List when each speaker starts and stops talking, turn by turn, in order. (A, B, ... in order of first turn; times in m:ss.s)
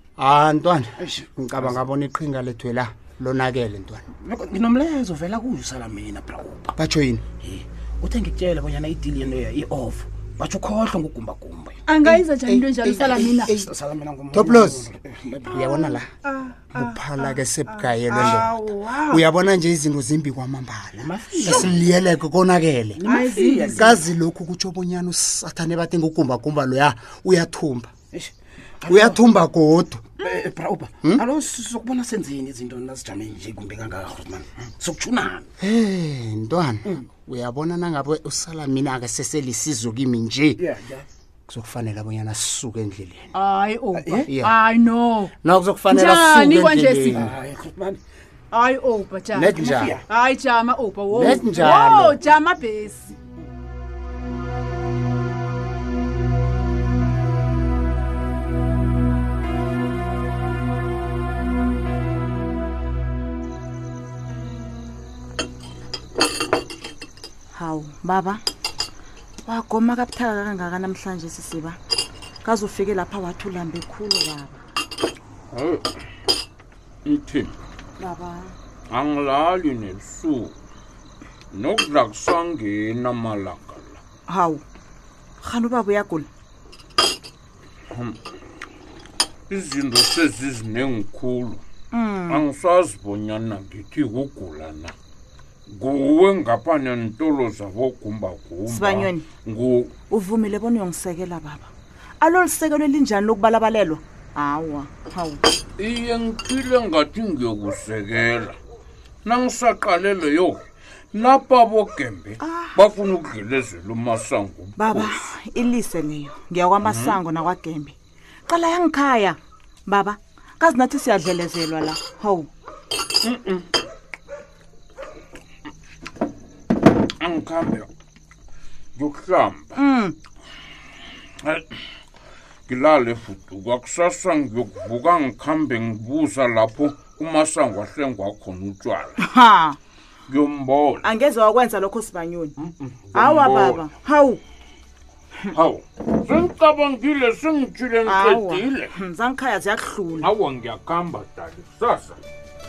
0:00.2-0:04.0 A
0:01.0-0:01.8 B
0:04.2-0:06.8 B
0:06.8-0:07.2 A
0:07.4-0:11.8 B
0:11.8-0:13.5 C
0:12.0-0:13.7 A
0:13.1-0:15.6 B
0:14.3-0:14.9 A
0:15.5-0:16.1 A
0:15.5-0:19.2 C
0:16.7-0:23.0 A
0:21.0-0:21.8 B
0:23.0-0:24.0 B
0:23.0-0:24.0 C
0:23.7-0:27.9 A
0:28.1-0:29.2 B
0:28.9-0:30.2 A
0:30.2-0:35.5 B
0:35.6-0:40.6 A
0:40.6-0:41.0 B
0:41.5-0:43.3 A
0:43.3-0:45.3 C
0:43.9-0:44.3 B
0:44.3-0:44.6 A
0:45.4-0:47.3 A
0:45.9-0:47.2 C
0:47.1-0:48.0 B
0:48.5-0:53.1 C
0:49.3-0:50.0 A
0:49.5-0:50.0 B
0:51.1-0:52.2 A
1:07.5-1:08.4 D
1:09.4-1:11.8 D
1:12.4-1:14.6 D
1:15.5-1:15.8 E
1:17.0-1:17.5 E
1:18.0-1:18.5 D
1:18.9-1:20.5 E
1:21.5-1:24.0 E
1:24.3-1:24.6 D
1:25.4-1:26.3 D
1:27.9-1:28.2 E
1:29.5-1:31.6 E
1:31.9-1:32.4 D
1:32.3-1:34.9 E
1:35.7-1:40.0 E
1:38.6-1:39.3 D
1:40.1-1:45.4 D
1:45.8-1:48.6 E
1:49.2-1:55.2 E
1:52.4-1:52.8 D
1:54.8-1:57.9 D
1:56.8-1:57.2 E
1:58.5-2:02.5 D
2:03.2-2:03.7 E
2:07.2-2:07.9 E
2:09.0-2:09.8 E
2:09.8-2:10.2 D
2:11.4-2:11.8 E
2:12.7-2:19.2 E
2:19.2-2:19.8 D
2:20.3-2:21.1 E
2:21.0-2:22.5 D
2:22.6-2:23.9 E
2:23.1-2:24.4 D
2:25.4-2:28.9 E
2:28.0-2:30.3 D
2:30.2-2:32.2 E